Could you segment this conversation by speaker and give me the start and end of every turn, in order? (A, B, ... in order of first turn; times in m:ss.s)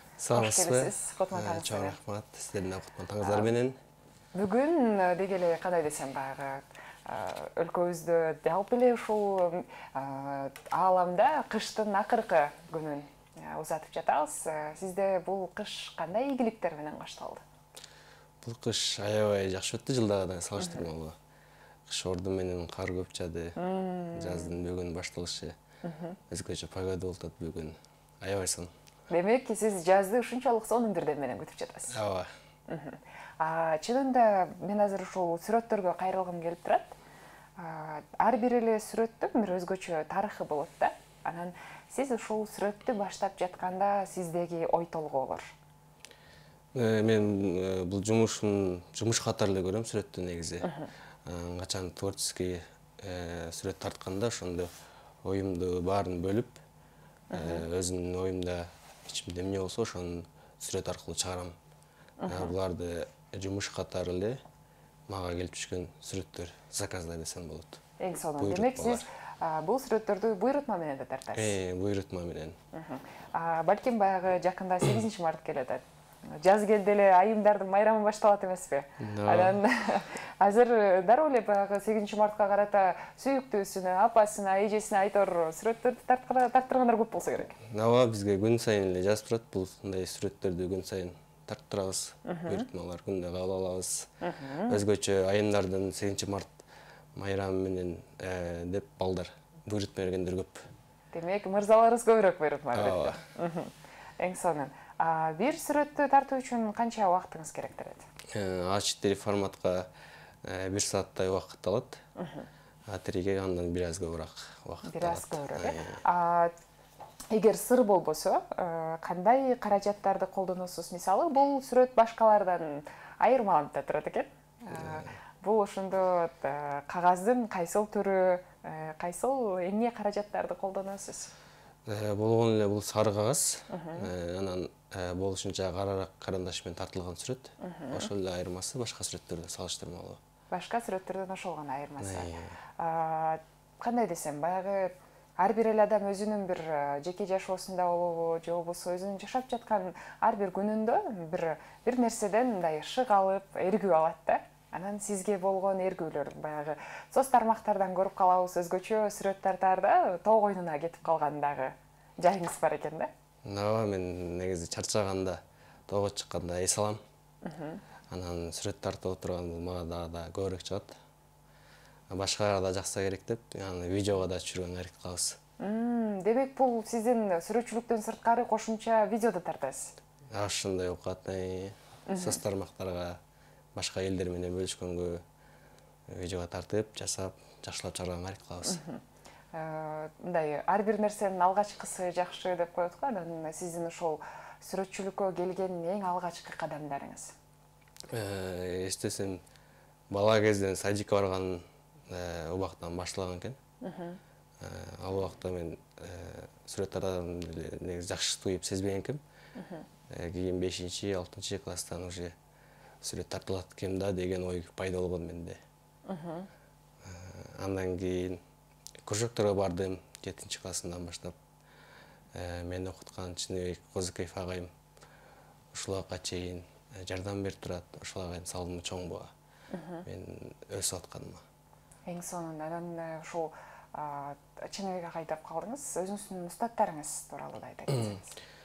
0:00.2-0:03.8 A
0:00.3-0:02.0 B
0:03.2-0:03.5 B
0:04.3-0:17.4 B
0:18.4-0:21.2 A
0:21.9-0:25.6 A
0:23.6-0:24.5 B
0:25.8-0:26.2 B
0:26.3-0:28.7 A
0:29.1-0:31.9 B
0:31.9-0:32.3 A
0:32.7-0:37.0 B
0:37.6-0:45.5 B
0:46.7-0:54.7 A
0:50.6-0:50.9 B
0:55.2-0:56.6 A
0:57.3-0:57.6 B
0:57.3-1:01.5 A
1:02.2-1:02.5 B
1:02.3-1:04.4 A
1:05.1-1:07.8 A
1:08.0-1:11.5 B
1:08.4-1:09.0 A
1:11.3-1:12.6 A
1:12.7-1:15.8 B
1:16.4-1:27.6 B
1:19.0-1:19.6 A
1:27.7-1:34.1 A
1:32.2-1:32.6 B
1:34.2-1:34.8 B
1:34.7-1:36.6 A
1:37.1-1:40.7 A
1:41.1-1:48.0 B
1:42.7-1:43.2 A
1:48.3-1:49.9 A
1:50.4-1:52.0 A
1:52.2-1:52.5 B
1:52.9-1:56.0 A
1:54.8-1:56.5 B
1:57.3-2:11.3 B
2:04.7-2:05.1 A
2:11.8-2:20.2 A
2:13.7-2:14.1 B
2:17.6-2:18.1 B
2:20.5-2:43.1 B
2:22.0-2:22.6 A
2:43.4-2:47.0 A
2:47.4-2:47.8 B
2:48.1-2:50.9 A
2:52.1-2:55.4 A
2:55.6-2:59.9 B
3:00.3-3:03.2 A
3:02.1-3:02.4 B
3:03.7-3:05.2 A
3:06.1-3:08.8 A
3:08.7-3:09.0 B
3:09.5-3:17.3 B
3:18.1-3:19.4 A
3:20.1-3:23.6 A
3:23.8-3:24.2 B
3:24.6-3:29.2 A
3:29.6-3:29.8 B
3:30.1-3:32.3 A
3:33.0-3:35.6 A
3:36.1-3:36.5 B
3:37.0-3:38.4 A
3:39.0-3:41.3 A
3:42.3-3:44.7 A
3:45.7-3:49.3 A
3:49.7-3:50.0 B
3:50.0-3:51.4 A
3:52.1-3:58.4 B